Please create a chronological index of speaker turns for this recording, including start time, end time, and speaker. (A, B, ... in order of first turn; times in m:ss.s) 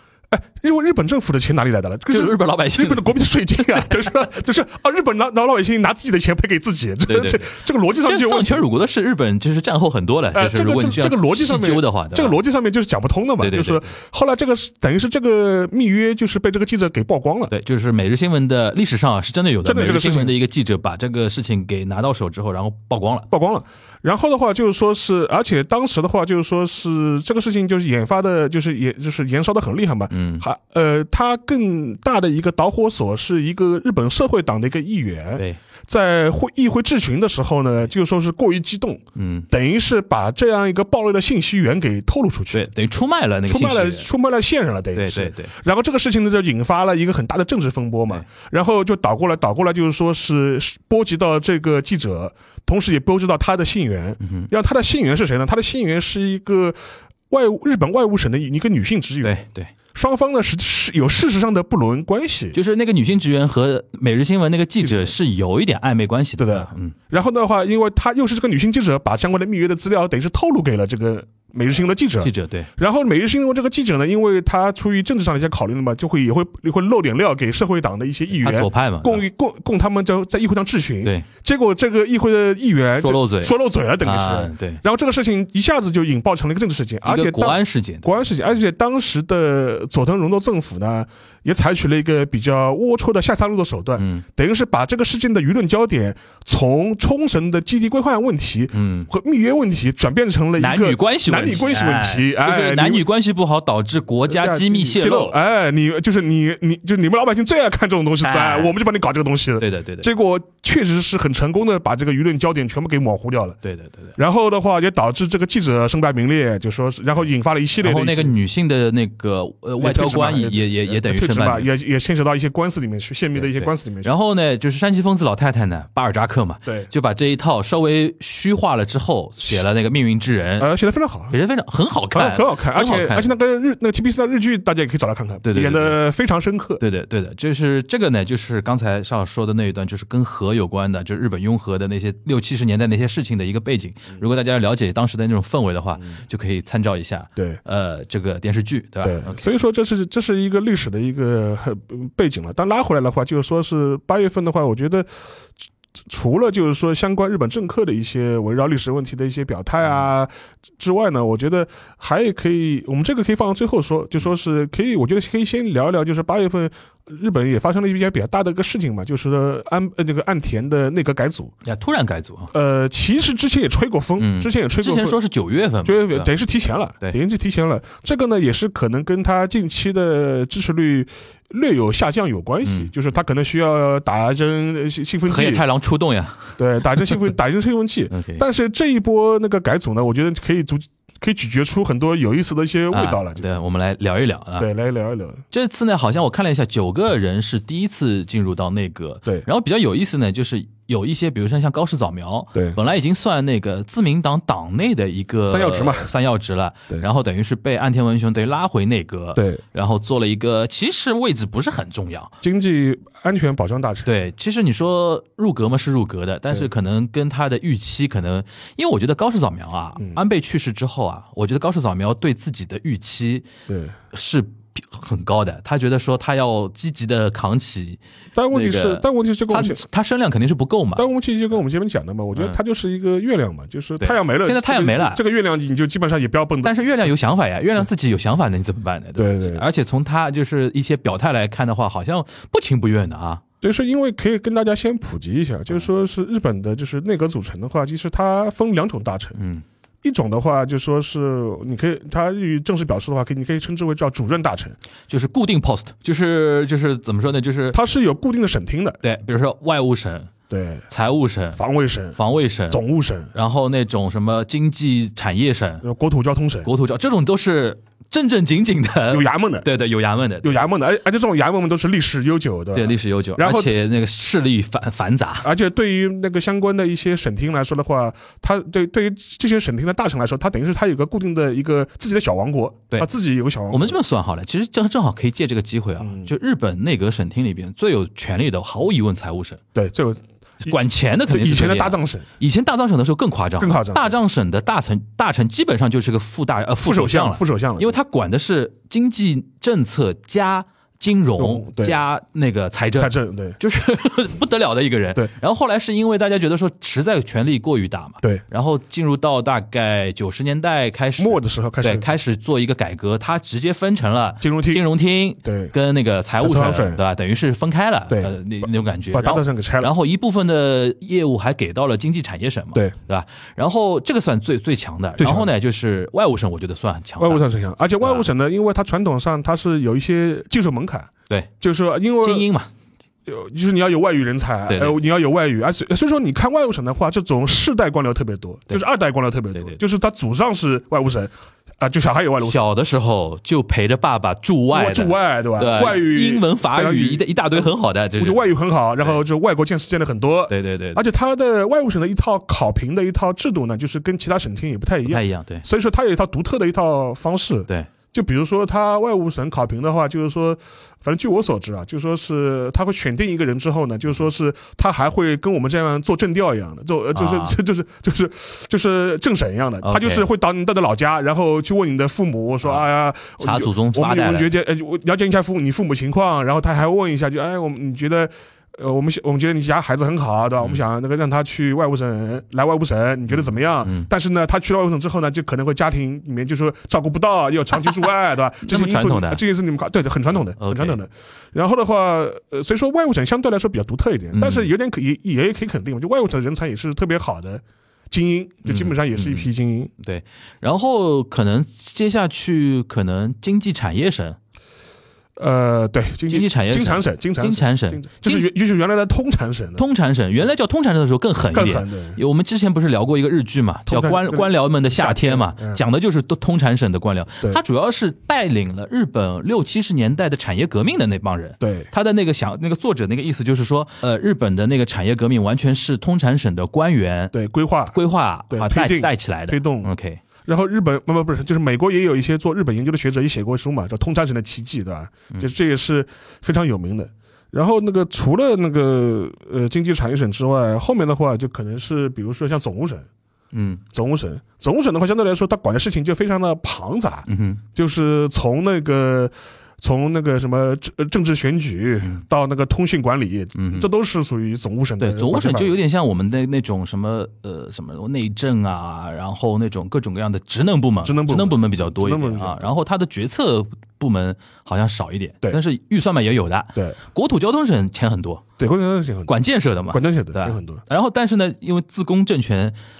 0:00.3-0:08.6 A
0:02.1-0:03.1 B
0:07.1-0:12.4 B
0:10.3-0:17.5 A
0:13.4-0:13.9 B
0:17.5-0:23.3 B
0:19.6-0:20.3 A
0:23.3-0:42.7 A
0:30.1-0:30.4 B
0:39.2-0:39.5 B
0:42.5-0:44.1 B
0:43.5-0:56.8 A
0:44.9-0:45.5 B
0:54.2-0:54.5 B
0:57.3-0:59.4 A
0:59.2-0:59.7 B
0:59.9-1:02.6 A
1:02.5-1:06.9 B
1:04.8-1:05.1 A
1:06.4-1:43.0 A
1:12.2-1:12.7 B
1:18.3-1:19.2 B
1:23.0-1:24.8 B
1:27.0-1:28.2 B
1:34.0-1:34.2 B
1:38.7-1:39.1 B
1:40.6-1:45.4 B
1:44.3-1:53.6 A
1:48.2-1:48.7 B
1:49.6-1:50.1 B
1:53.6-1:54.2 B
1:54.2-1:58.3 A
1:57.8-2:01.7 B
1:59.8-2:04.1 A
2:03.4-2:10.7 B
2:10.6-2:11.3 A
2:11.3-2:13.3 B
2:12.1-2:16.8 A
2:15.4-2:16.0 B
2:16.8-2:29.5 B
2:29.0-2:35.1 A
2:36.1-2:51.5 A
2:51.6-2:52.5 B
2:52.5-2:55.2 A
2:54.2-2:56.3 B
2:55.8-3:05.6 A
3:02.6-3:02.9 B
3:05.3-3:07.2 B
3:06.6-3:13.5 A
3:08.1-3:08.4 B
3:12.9-3:14.7 B
3:14.6-3:15.4 A
3:15.5-3:32.3 B
3:25.5-3:26.1 A
3:29.4-3:29.6 A
3:32.4-3:34.1 A
3:34.0-3:43.4 B
3:43.7-3:44.0 A
3:44.1-3:48.0 B
3:48.3-3:49.8 A
3:48.5-3:51.0 B
3:51.0-3:56.8 A
3:54.0-3:55.2 B
3:56.6-4:03.4 B
3:59.2-3:59.6 A
4:03.6-4:09.4 A
4:09.4-4:09.6 B
4:10.0-4:14.8 A
4:15.1-4:17.8 B
4:17.7-4:19.0 A
4:19.0-4:20.3 B
4:20.5-4:20.9 A
4:20.9-4:21.6 B
4:21.6-4:22.2 A
4:22.1-4:22.8 B
4:22.7-4:23.3 A
4:23.3-4:25.8 B
4:25.8-4:26.7 A
4:26.6-4:30.6 B
4:29.1-4:29.7 A
4:30.4-4:33.7 A
4:32.7-4:35.5 B
4:35.4-4:44.0 A
4:43.7-4:49.6 B
4:46.0-4:46.3 A
4:49.7-4:50.7 A
4:50.6-5:27.4 B
4:51.3-4:52.3 A
4:53.6-4:54.1 A
4:56.8-4:57.9 A
5:01.4-5:02.0 A
5:03.0-5:03.6 A
5:11.2-5:12.0 A
5:14.4-5:14.8 A
5:15.4-5:15.7 A
5:16.4-5:17.0 A
5:19.1-5:19.9 A
5:25.2-5:25.5 A
5:27.2-5:32.5 A
5:28.0-5:28.2 B
5:32.2-5:32.7 B
5:33.2-5:42.6 A
5:34.7-5:35.0 B
5:42.4-5:48.5 B
5:44.7-6:39.9 A
5:50.5-5:51.0 B
5:55.0-5:55.6 B
6:07.1-6:07.6 B
6:09.8-6:10.2 B
6:13.4-6:14.5 B
6:23.3-6:24.1 B
6:28.6-6:29.4 B
6:30.6-6:31.0 B
6:34.3-6:34.7 B
6:38.6-6:39.5 B
6:40.0-6:44.4 B
6:45.4-6:49.8 A
6:46.3-6:48.5 B
6:49.8-7:07.3 B
6:51.5-6:52.2 A
6:53.9-6:55.8 A
7:01.6-7:01.9 A
7:07.3-7:08.0 A
7:07.9-7:10.2 B
7:08.5-7:09.9 A
7:10.4-7:23.1 A
7:23.5-7:23.8 B
7:23.9-7:35.8 A
7:27.3-7:27.6 B
7:33.6-7:33.9 B
7:35.0-7:48.4 B
7:41.0-7:42.7 A
7:48.6-7:49.3 A
7:49.3-7:52.7 B
7:49.9-7:50.8 A